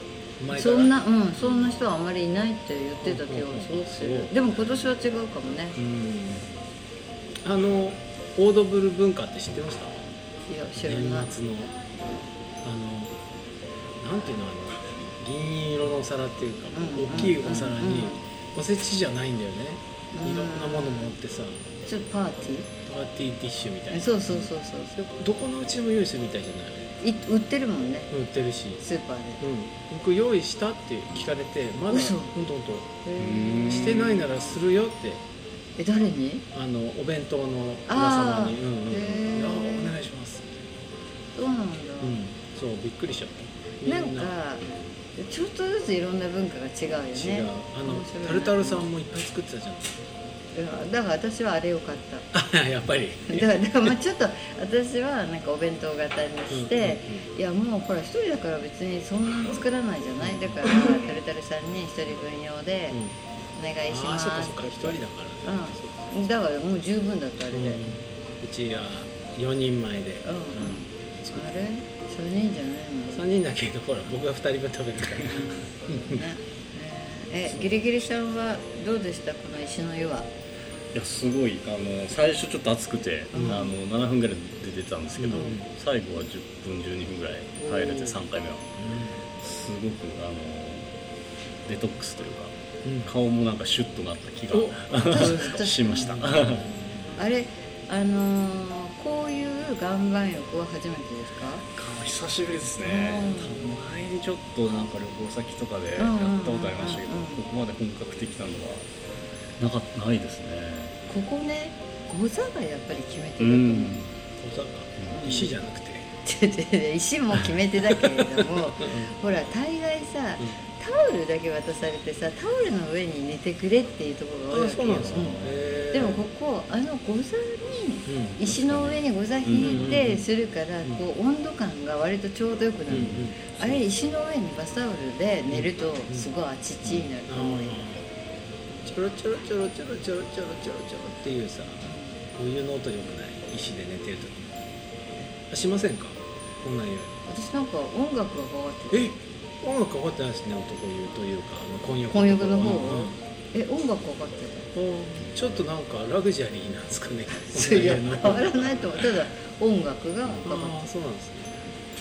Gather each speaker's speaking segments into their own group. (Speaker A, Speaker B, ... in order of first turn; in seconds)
Speaker A: 0.4-0.9, 3.0-4.6, 5.8-6.5, 7.4-10.1, 10.8-11.7, 12.6-13.2, 14.0-21.6, 22.9-26.9, 28.1-28.8, 29.4-32.9, 33.7-35.2, 36.5-40.6, 42.0-44.3, 47.1-50.0, 52.3-53.5, 56.5-57.3, 60.2-60.7, 63.9-66.3, 67.5-71.7, 73.1-76.2, 83.3-83.7, 85.2-85.7, 87.6-88.2, 88.8-89.2, 92.8-93.1, 94.5-97.2, 114.4-116.1, 117.9-118.5, 124.5-126.3, 128.1-128.4, 129.6-130.3, 132.9-133.8, 135.5-136.3, 137.3-138.0, 138.8-141.8, 142.3-144.6, 145.5-147.2, 148.9-153.2, 154.7-159.1, 160.4-161.6
Speaker B: 0.5-5.8, 10.5-11.3, 16.7-18.2, 20.1-21.1, 21.9-22.7, 23.9-24.9, 27.0-28.1, 28.8-29.4, 31.9-32.4, 33.0-34.3, 35.8-36.5, 37.9-40.0, 41.3-42.2, 43.8-48.9, 50.5-52.3, 53.3-63.0, 63.5-67.8, 70.2-73.3, 75.2-80.3, 83.3-83.7, 95.0-96.3, 97.2-101.7, 102.8-103.8, 106.0-107.5, 111.1-114.0, 115.1-115.5, 116.2-137.8, 141.8-142.2, 147.3-149.1, 152.1-154.7, 157.3-160.8
Speaker C: 33.2-34.0, 77.5-77.8, 80.9-88.7, 89.4-91.0, 91.7-96.7, 101.8-108.9, 109.6-110.9, 113.4-114.1, 125.0-125.8, 128.3-130.1, 132.9-133.3